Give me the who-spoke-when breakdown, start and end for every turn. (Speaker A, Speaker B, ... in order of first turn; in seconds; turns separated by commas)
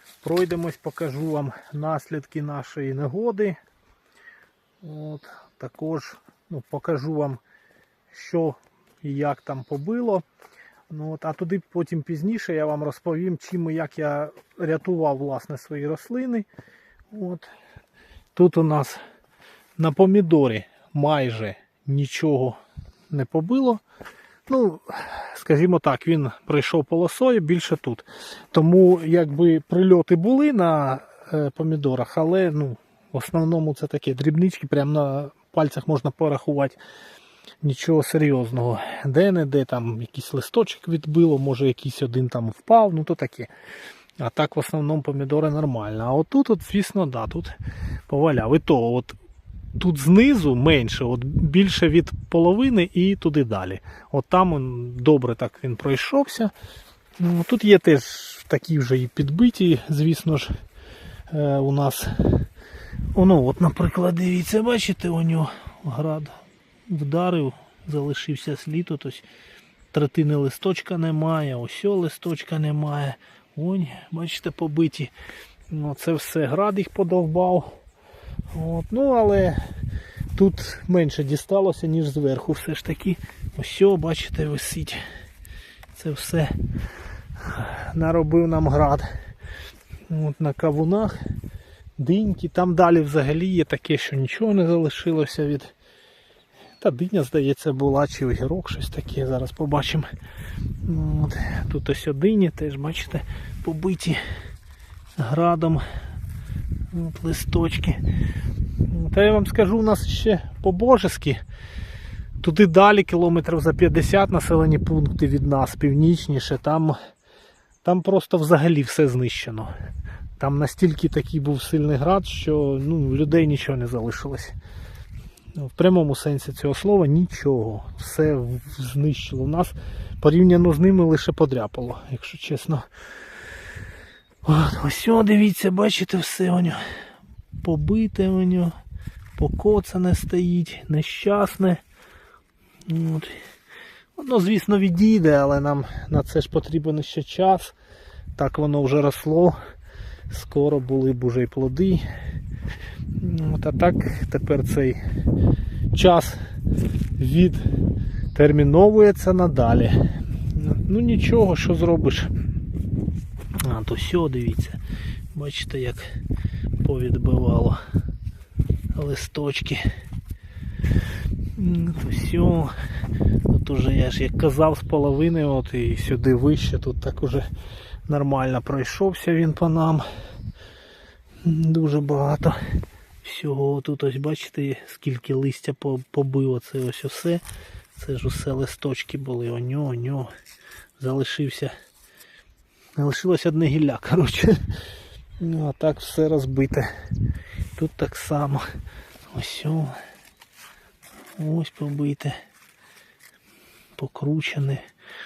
Speaker A: 0.2-3.6, Speaker A: 4.8-7.4, Speaker A: 8.1-10.2, Speaker A: 10.9-16.5, Speaker A: 17.1-17.5, Speaker A: 18.3-19.0, Speaker A: 19.8-22.6, Speaker A: 23.1-23.8, Speaker A: 24.5-36.8, Speaker A: 37.6-43.5, Speaker A: 44.2-47.5, Speaker A: 48.1-49.2, Speaker A: 49.7-56.5, Speaker A: 57.2-60.5, Speaker A: 61.3-62.5, Speaker A: 63.1-69.2, Speaker A: 69.9-75.1, Speaker A: 75.7-77.8, Speaker A: 78.5-79.6, Speaker A: 80.3-85.0, Speaker A: 85.9-86.5, Speaker A: 87.4-89.1, Speaker A: 90.1-91.2, Speaker A: 92.0-95.7, Speaker A: 96.8-100.1, Speaker A: 100.8-104.2, Speaker A: 105.2-105.8, Speaker A: 106.9-108.0, Speaker A: 108.9-111.4, Speaker A: 112.4-117.0, Speaker A: 117.8-119.7, Speaker A: 120.4-124.5, Speaker A: 125.5-132.9, Speaker A: 134.4-136.8, Speaker A: 137.6-138.8, Speaker A: 139.4-141.8, Speaker A: 142.9-143.3, Speaker A: 144.2-147.7, Speaker A: 148.4-149.6, Speaker A: 150.3-152.0, Speaker A: 153.2-155.0, Speaker A: 155.9-156.4, Speaker A: 157.2-157.6, Speaker A: 158.3-160.0, Speaker A: 160.5-162.3, Speaker A: 163.6-164.8, Speaker A: 165.3-166.1, Speaker A: 166.8-167.8, Speaker A: 168.9-169.8, Speaker A: 171.5-172.7, Speaker A: 173.4-177.5, Speaker A: 178.1-180.1, Speaker A: 181.4-182.7, Speaker A: 183.2-187.4, Speaker A: 187.9-190.3, Speaker A: 191.0-191.7, Speaker A: 193.0-194.7, Speaker A: 195.4-196.9, Speaker A: 197.8-198.7, Speaker A: 199.3-200.0, Speaker A: 201.4-202.4, Speaker A: 203.9-204.8